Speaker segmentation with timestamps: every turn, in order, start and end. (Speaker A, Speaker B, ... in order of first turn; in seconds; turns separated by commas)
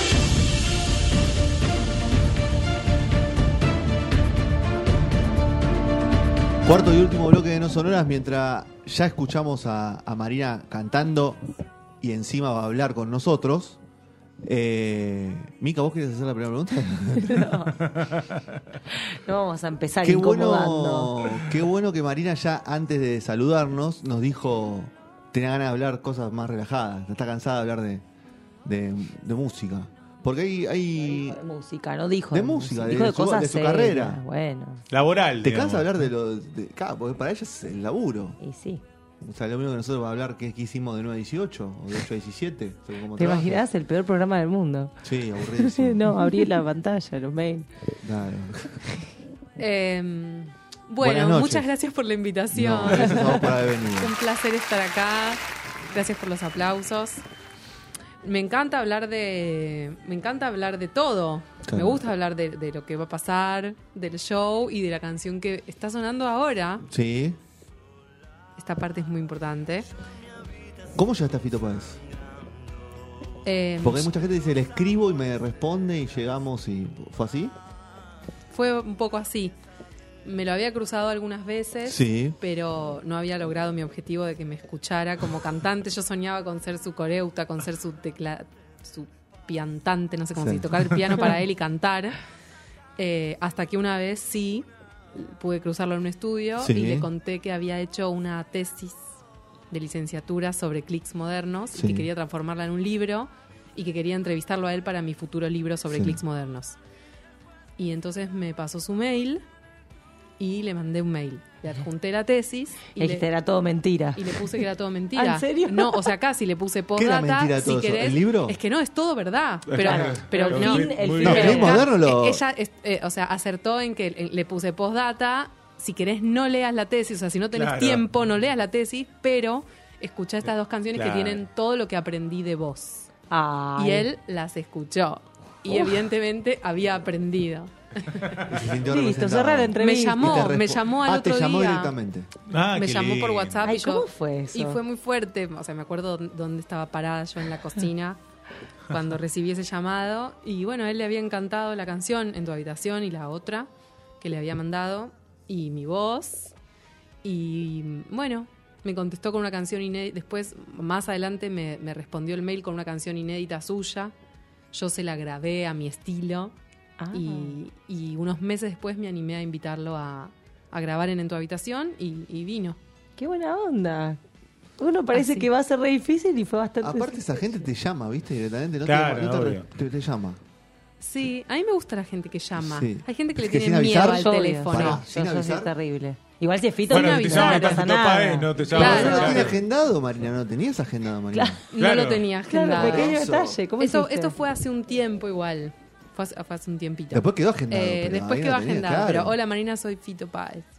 Speaker A: 6.6-11.4, Speaker A: 12.0-13.8, Speaker A: 14.4-17.6, Speaker B: 17.2-17.8, Speaker B: 18.9-21.2, Speaker A: 20.0-28.0, Speaker A: 28.6-31.4, Speaker B: 31.2-34.8, Speaker A: 32.3-34.2, Speaker C: 34.9-35.9, Speaker A: 35.4-38.4, Speaker B: 38.4-38.8, Speaker A: 39.2-43.6, Speaker B: 43.1-47.7, Speaker A: 45.0-46.2, Speaker A: 48.0-48.8, Speaker D: 49.6-57.2, Speaker A: 51.0-51.7, Speaker A: 52.5-54.1, Speaker D: 58.2-66.9, Speaker A: 61.7-62.0, Speaker A: 66.9-67.4, Speaker D: 68.6-69.9, Speaker A: 71.0-72.0, Speaker D: 73.5-74.1, Speaker A: 73.8-77.5, Speaker D: 78.5-79.5, Speaker D: 80.2-92.2, Speaker A: 81.8-82.4, Speaker A: 90.3-90.8, Speaker D: 93.0-99.2, Speaker A: 96.6-97.1, Speaker D: 99.7-106.8, Speaker A: 101.7-102.1, Speaker A: 105.9-106.2, Speaker D: 107.8-109.4, Speaker D: 110.4-113.3, Speaker B: 113.0-114.6, Speaker D: 114.2-133.1, Speaker B: 115.1-116.1, Speaker A: 117.0-118.6, Speaker C: 119.7-121.7, Speaker B: 119.8-121.8, Speaker A: 121.2-122.4, Speaker C: 127.5-128.0, Speaker C: 130.9-131.4, Speaker B: 133.3-134.1, Speaker D: 133.8-138.4, Speaker A: 138.4-142.3, Speaker B: 138.8-140.5, Speaker D: 139.8-141.9, Speaker C: 142.5-143.6, Speaker D: 142.7-148.2, Speaker B: 143.6-144.8, Speaker D: 148.9-153.7, Speaker D: 154.2-156.5, Speaker D: 157.2-164.1, Speaker D: 164.7-166.6, Speaker B: 167.0-167.6, Speaker D: 167.1-172.8, Speaker B: 173.2-174.2, Speaker B: 174.8-177.3, Speaker D: 175.1-175.5, Speaker A: 176.8-180.4, Speaker C: 178.8-179.7, Speaker D: 181.0-185.0, Speaker A: 182.6-185.7, Speaker B: 184.0-189.4, Speaker D: 186.9-187.8, Speaker C: 186.9-189.6, Speaker D: 188.7-189.5, Speaker A: 188.7-191.6, Speaker B: 191.3-191.6, Speaker D: 191.7-193.2, Speaker C: 191.8-192.3, Speaker B: 192.5-194.3, Speaker A: 192.8-193.6, Speaker D: 193.8-200.7, Speaker A: 197.1-199.3